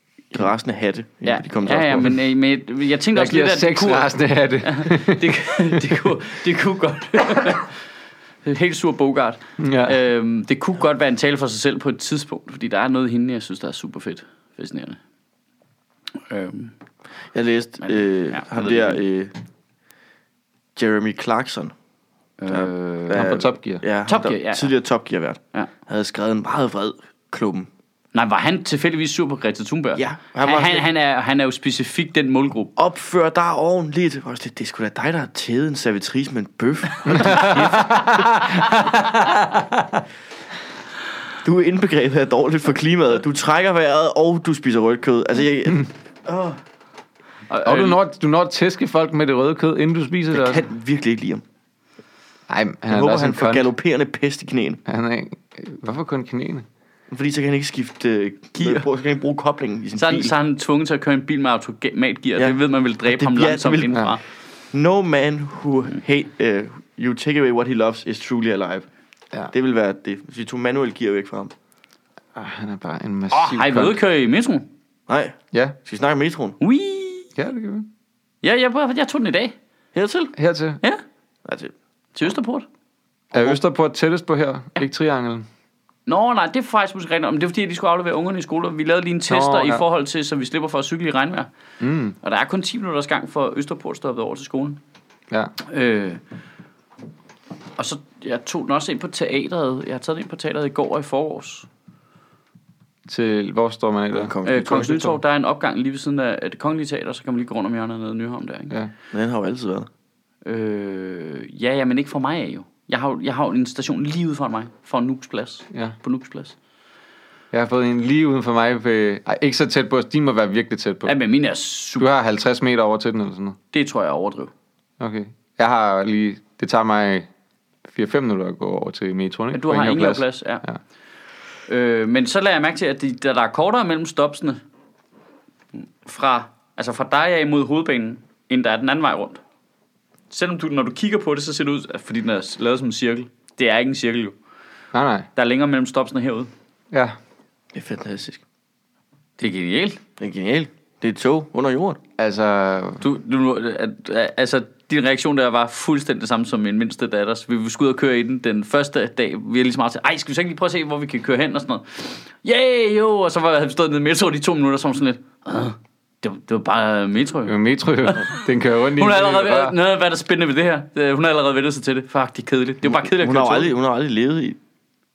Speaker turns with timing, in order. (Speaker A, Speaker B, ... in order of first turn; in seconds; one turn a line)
Speaker A: 0.3-2.1
Speaker B: 1.2-4.1
Speaker C: 3.1-5.8
Speaker B: 4.6-7.7
Speaker B: 8.4-15.0
Speaker C: 9.6-10.0
Speaker B: 16.2-16.7
Speaker A: 17.3-19.3
Speaker B: 17.8-19.0
Speaker A: 20.8-21.7
Speaker B: 22.4-23.3
Speaker A: 22.5-27.7
Speaker C: 23.1-23.8
Speaker B: 24.1-24.7
Speaker B: 28.1-32.7
Speaker A: 29.9-30.9
Speaker A: 32.8-37.9
Speaker B: 37.1-38.8
Speaker C: 37.1-40.0
Speaker A: 41.4-46.5
Speaker B: 47.5-48.0
Speaker C: 47.6-50.6
Speaker A: 50.3-51.4
Speaker C: 52.5-53.7
Speaker A: 52.9-54.8
Speaker C: 54.9-56.6
Speaker A: 57.1-60.3
Speaker B: 58.6-58.9
Speaker B: 60.0-64.2
Speaker A: 62.4-64.1
Speaker A: 64.7-68.9
Speaker A: 69.5-71.5
Speaker C: 72.3-74.0
Speaker B: 73.3-74.7
Speaker A: 75.1-76.6
Speaker B: 76.6-77.3
Speaker C: 77.3-77.9
Speaker B: 78.4-79.5
Speaker A: 79.9-80.3
Speaker C: 80.3-80.8
Speaker A: 81.4-81.7
Speaker B: 82.2-82.7
Speaker A: 83.3-83.6
Speaker C: 83.3-85.5
Speaker B: 86.1-91.5
Speaker C: 89.3-89.8
Speaker C: 91.8-92.2
Speaker B: 92.2-94.8
Speaker B: 95.6-96.2
Speaker B: 97.8-101.7
Speaker C: 103.1-104.3
Speaker A: 104.1-105.2
Speaker B: 104.5-108.7
Speaker A: 109.1-109.9
Speaker B: 110.4-116.5
Speaker C: 117.5-121.1
Speaker B: 121.0-122.1
Speaker C: 122.0-123.6
Speaker B: 123.7-124.5
Speaker C: 125.0-127.3
Speaker C: 127.9-130.8
Speaker B: 129.5-130.6
Speaker B: 131.7-134.6
Speaker B: 135.7-139.4
Speaker B: 140.3-144.3
Speaker C: 144.9-145.3
Speaker B: 145.3-146.5
Speaker A: 147.7-148.4
Speaker B: 149.4-150.0
Speaker A: 150.2-152.0
Speaker C: 152.2-153.0
Speaker B: 153.0-173.7
Speaker C: 167.4-169.7
Speaker A: 172.9-174.6